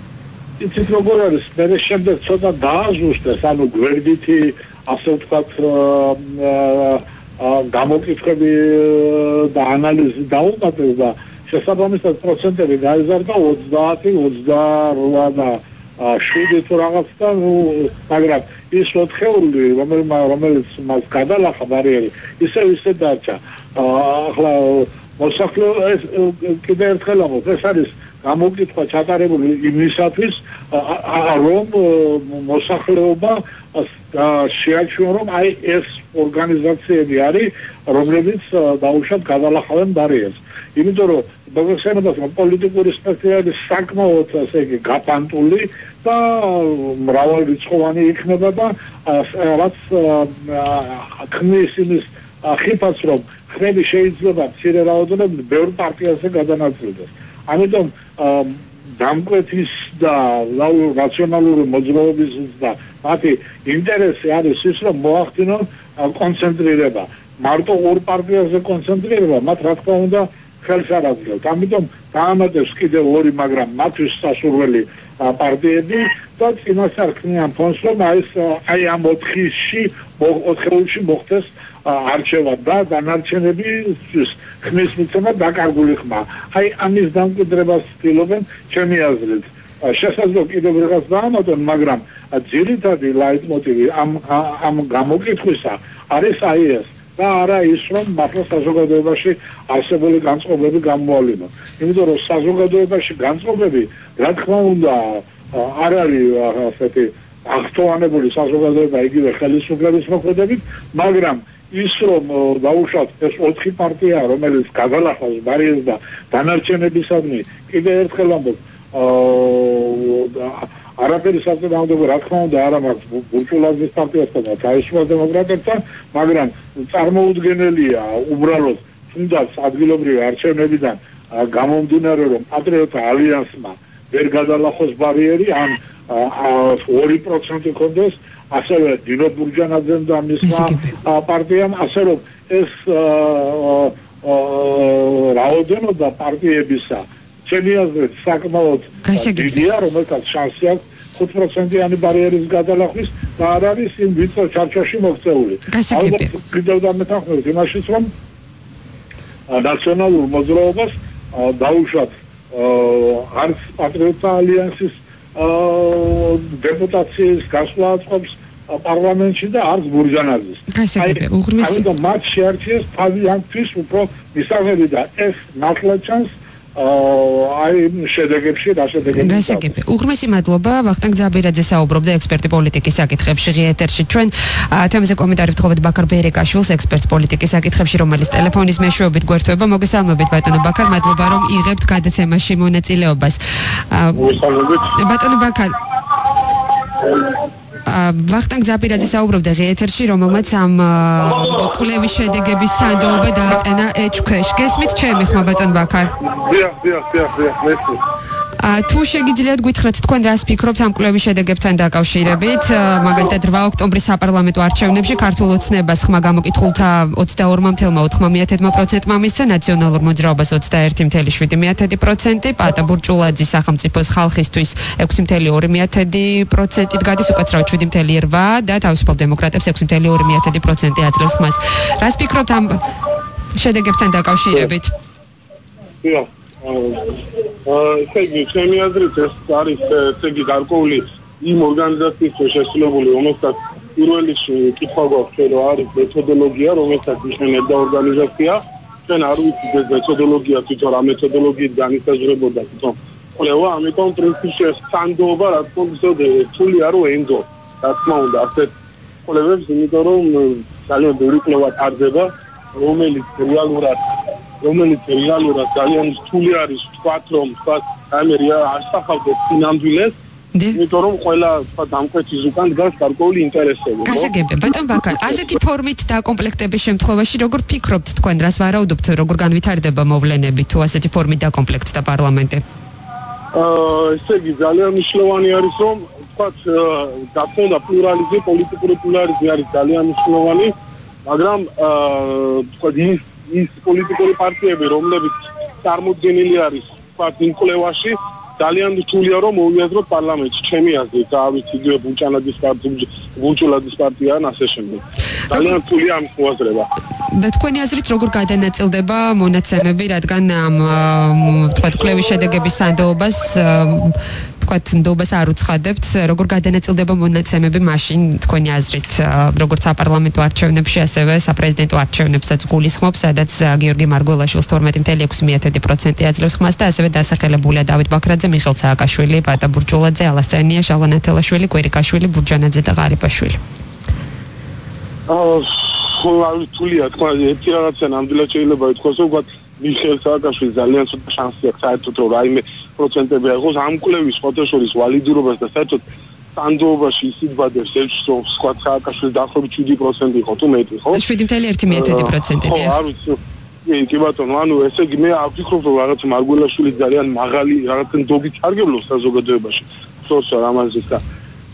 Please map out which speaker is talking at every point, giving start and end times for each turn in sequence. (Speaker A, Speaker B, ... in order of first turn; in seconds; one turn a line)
Speaker A: 0.6-158.1
Speaker B: 140.4-140.9
Speaker B: 149.1-149.6
Speaker B: 155.7-156.3
Speaker A: 159.5-179.7
Speaker B: 170.7-171.8
Speaker B: 179.2-194.3
Speaker C: 194.2-194.8
Speaker B: 194.8-195.8
Speaker B: 197.9-206.1
Speaker A: 206.2-208.0
Speaker B: 208.6-232.8
Speaker B: 233.5-234.9
Speaker C: 237.7-258.7
Speaker C: 259.3-264.0
Speaker C: 264.6-270.1
Speaker B: 270.5-270.8
Speaker C: 270.7-274.3
Speaker B: 274.1-282.6
Speaker C: 283.5-290.7
Speaker C: 291.3-306.9
Speaker B: 307.3-333.6
Speaker C: 335.3-346.0
Speaker C: 346.6-351.2
Speaker B: 351.1-353.0
Speaker C: 351.9-361.2